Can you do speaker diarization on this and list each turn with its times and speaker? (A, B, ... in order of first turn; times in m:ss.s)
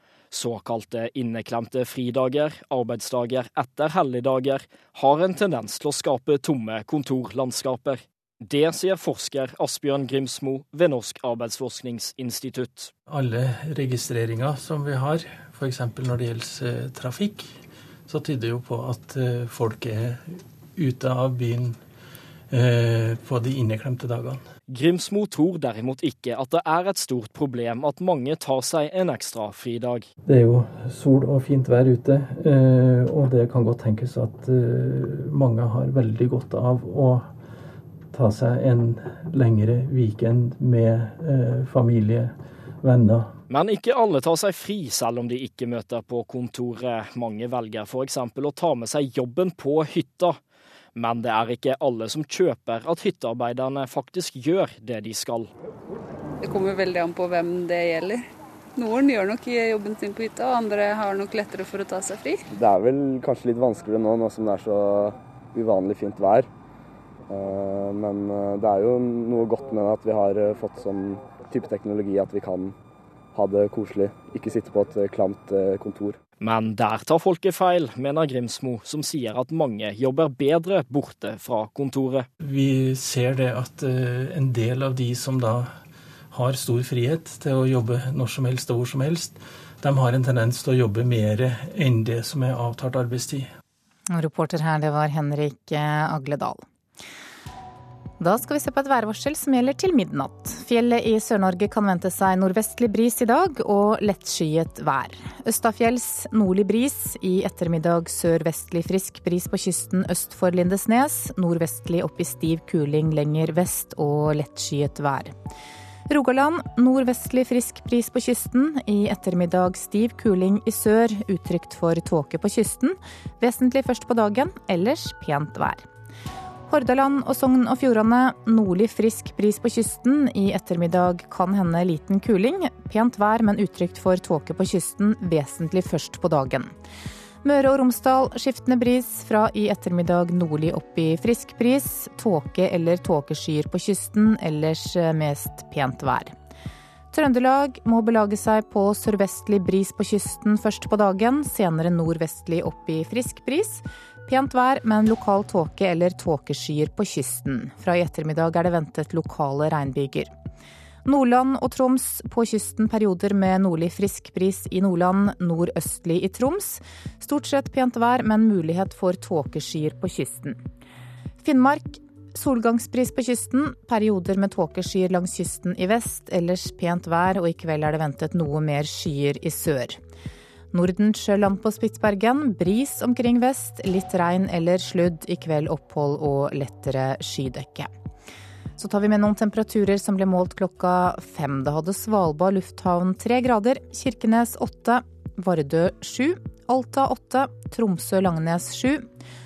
0:00.3-0:12.9 A
0:13.1-0:17.4 B
0:18.1-0:20.2 B
0:20.8-0:21.7 B
0:22.5-0:24.4 B
0:24.7-0:30.1 A
0:30.2-0:37.2 B
0:38.1-0:42.3 B
0:42.8-0:43.3 B
0:43.5-0:50.4 A
0:51.0-0:55.5 A
0:56.5-0:58.1 C
0:58.8-1:02.3 C
1:02.5-1:06.5 D
1:07.3-1:12.7 D
1:13.3-1:16.2 D
1:16.4-1:22.3 A
1:22.4-1:25.6 B
1:26.3-1:33.4 B
1:34.1-1:36.6 E
1:38.2-1:55.4 E
1:56.1-2:05.9 E
2:06.7-2:16.7 E
2:17.4-2:26.3 E
2:27.1-2:40.3 E
2:41.0-2:50.6 E
2:51.4-3:00.0 E
3:00.7-3:07.9 E
3:08.8-3:19.1 E